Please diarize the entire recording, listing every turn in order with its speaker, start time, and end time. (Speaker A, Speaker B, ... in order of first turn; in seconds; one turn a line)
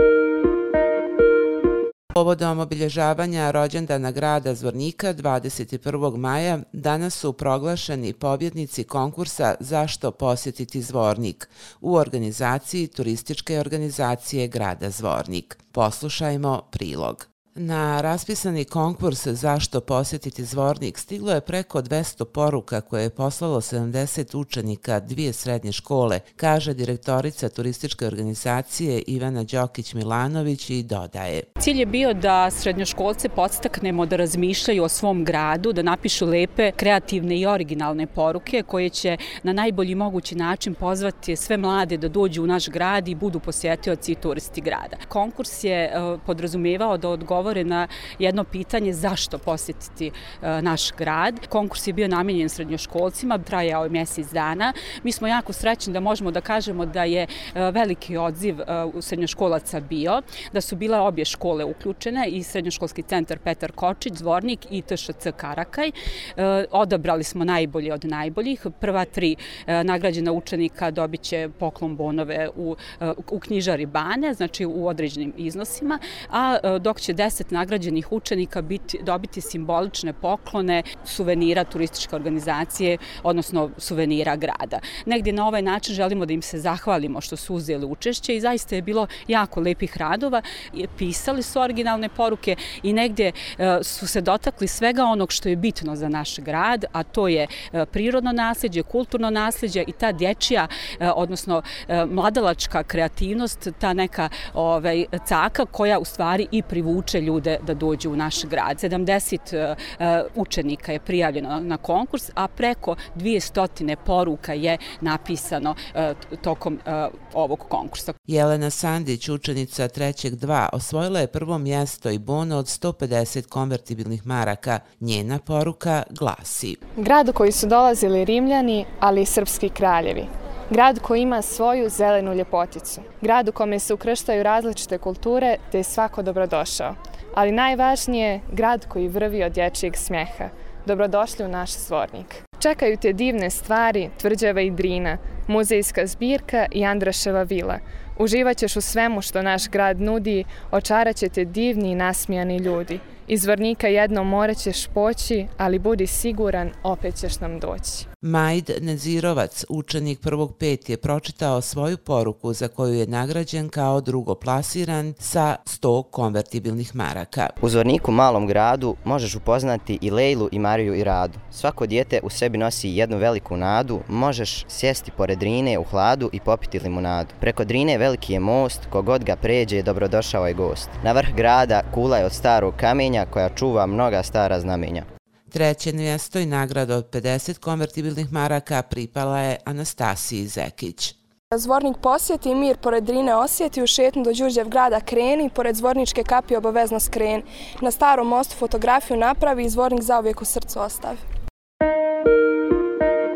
Speaker A: 2.1-31.4
Speaker B: 31.6-118.1
Speaker A: 118.2-126.8
Speaker C: 127.0-158.0
Speaker A: 158.2-167.5
Speaker D: 167.6-185.1
Speaker A: 185.5-191.2
Speaker E: 191.5-201.2